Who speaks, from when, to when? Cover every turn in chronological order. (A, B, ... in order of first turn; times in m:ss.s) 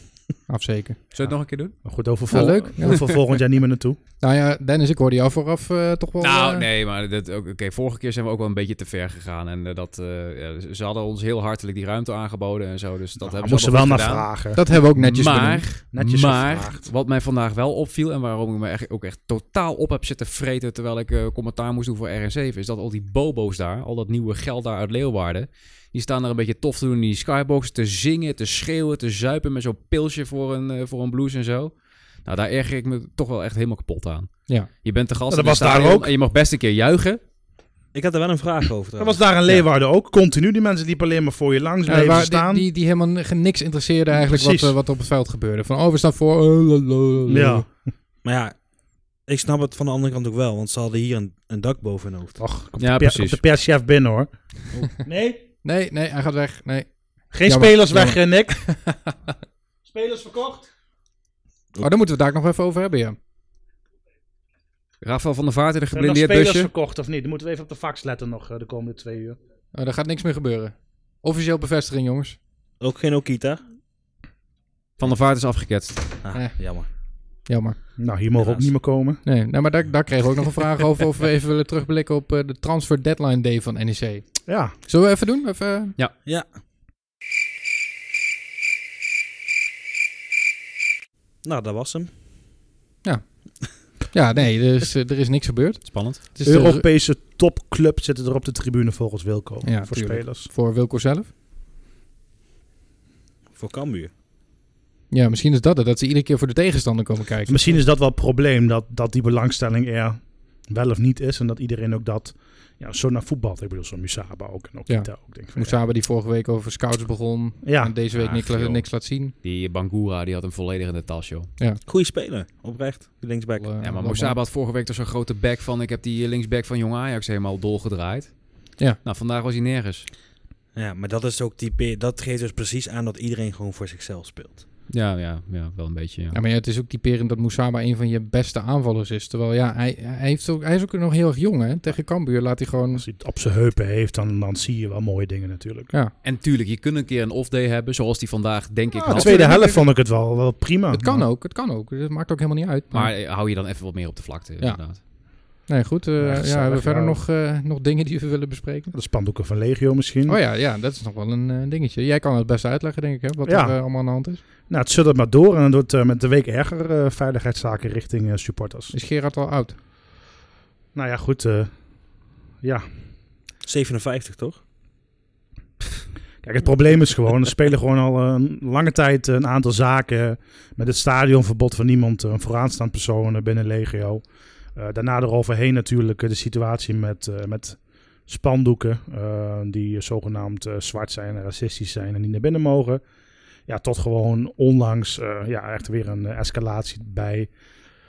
0:00.4-0:01.0 A
0:01.1-0:01.9 B
0:01.3-0:04.0 C
0:02.3-0:03.1 A
0:02.9-0:03.1 B
0:04.2-0:06.7 A
0:06.2-0:37.2 B
0:13.2-0:14.6 C
0:14.6-0:15.7 A
0:15.9-0:16.9 C
0:35.3-0:36.1 C
0:37.9-0:39.3 D
0:39.0-0:42.7 C
0:41.9-0:47.7 A
0:44.1-0:44.7 C
0:47.3-0:47.8 C
0:48.2-0:52.4 D
0:52.4-0:55.5 C
0:52.8-0:53.4 B
0:55.6-0:59.3 A
0:57.3-0:58.6 C
0:59.8-1:00.7 C
1:01.8-1:03.2 A
1:05.0-1:06.7 B
1:05.9-1:09.4 C
1:09.7-1:12.4 A
1:12.8-1:13.6 D
1:15.0-1:16.2 B
1:16.2-1:16.9 D
1:17.5-1:17.8 A
1:18.0-1:19.2 C
1:18.4-1:18.7 D
1:19.2-1:26.0 A
1:24.5-1:24.7 C
1:31.4-1:32.1 D
1:33.0-1:36.8 A
1:35.9-1:36.2 B
1:36.4-1:40.5 C
1:39.6-1:41.3 A
1:43.6-1:44.1 D
1:45.1-1:47.8 A
1:47.5-1:55.8 C
1:54.9-1:59.3 A
1:57.6-1:57.9 C
1:58.1-2:01.5 B
2:01.8-2:03.7 D
2:03.6-2:04.4 A
2:03.8-2:10.1 B
2:10.8-2:14.6 D
2:14.9-2:16.4 B
2:16.3-2:23.0 A
2:22.9-2:25.9 C
2:26.2-2:29.8 B
2:29.0-2:31.3 C
2:29.1-2:29.8 A
2:30.9-2:33.1 A
2:32.9-2:35.0 B
2:34.6-2:38.9 A
2:36.2-2:37.2 C
2:38.9-2:40.4 C
2:40.3-2:44.4 A
2:43.5-2:43.8 C
2:44.7-2:49.0 C
2:48.9-2:49.8 A
2:50.9-2:51.7 C
2:53.6-2:54.6 D
2:56.4-3:04.2 C
3:04.8-3:13.0 C
3:13.7-3:17.5 C